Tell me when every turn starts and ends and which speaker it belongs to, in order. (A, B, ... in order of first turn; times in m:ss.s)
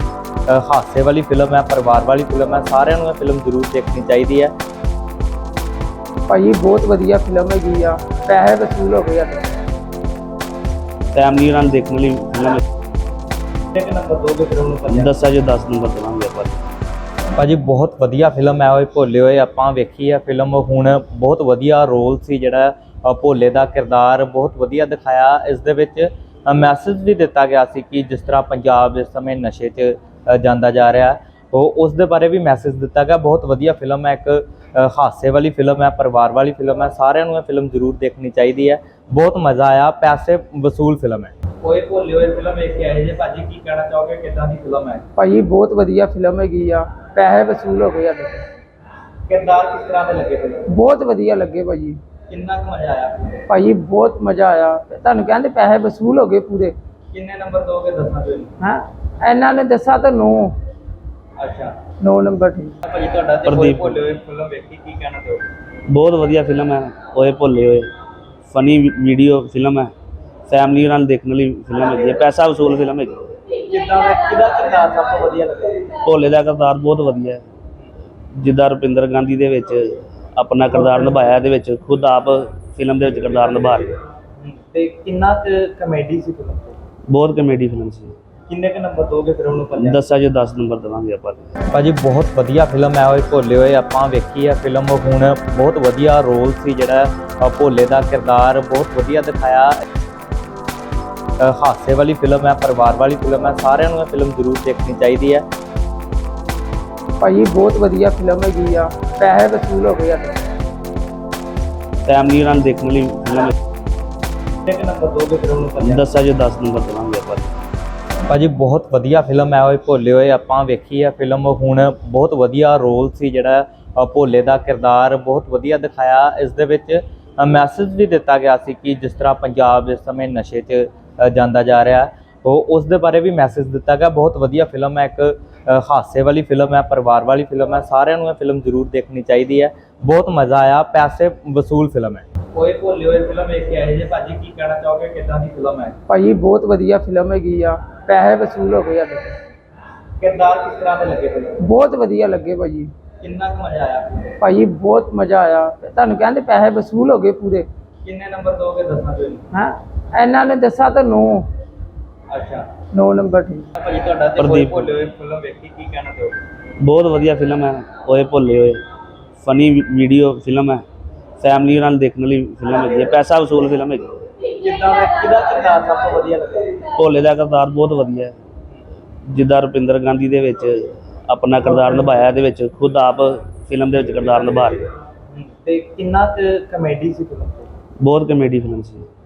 0:00.5-0:04.5 A
0:06.3-0:09.6 B
0:11.1-0:12.6 C
0:13.7-0:15.1 A
0:14.9-0:16.6 C
0:17.4-0:45.0 A
0:45.2-0:48.4 B
0:49.3-0:50.7 A
0:50.6-0:52.0 B
0:52.3-0:53.4 A
0:53.5-0:56.7 B
0:57.1-0:58.5 A
0:58.6-1:00.5 B
1:01.4-1:01.7 A
1:02.0-1:02.8 B
1:02.8-1:05.4 A
1:03.4-1:04.0 C
1:05.9-1:07.9 C
1:08.5-1:09.9 C
1:10.5-1:13.2 C
1:13.7-1:15.9 A
1:16.0-1:17.4 C
1:18.4-1:23.9 C
1:20.7-1:21.2 A
1:24.4-1:26.8 A
1:27.1-1:28.1 C
1:28.5-1:30.0 A
1:29.8-1:31.4 C
1:31.7-1:39.8 A
1:41.4-1:45.4 A
1:47.2-1:50.4 B
1:52.0-1:53.5 C
1:54.6-1:56.0 A
1:55.8-1:57.5 C
1:58.3-2:25.9 A
2:26.1-2:29.3 B
2:30.2-2:31.6 A
2:31.6-2:32.9 B
2:33.2-2:34.4 A
2:34.4-2:37.7 B
2:38.0-2:39.4 A
2:39.5-2:41.5 B
2:42.3-2:42.7 A
2:42.9-2:43.7 B
2:43.8-2:46.4 A
2:44.4-2:44.9 C
2:46.8-2:48.8 C
2:49.4-2:50.8 C
2:51.4-2:54.1 C
2:54.6-2:56.8 A
2:57.0-2:58.3 C
2:59.3-3:04.8 C
3:01.6-3:02.1 A
3:05.3-3:07.7 A
3:08.0-3:09.0 C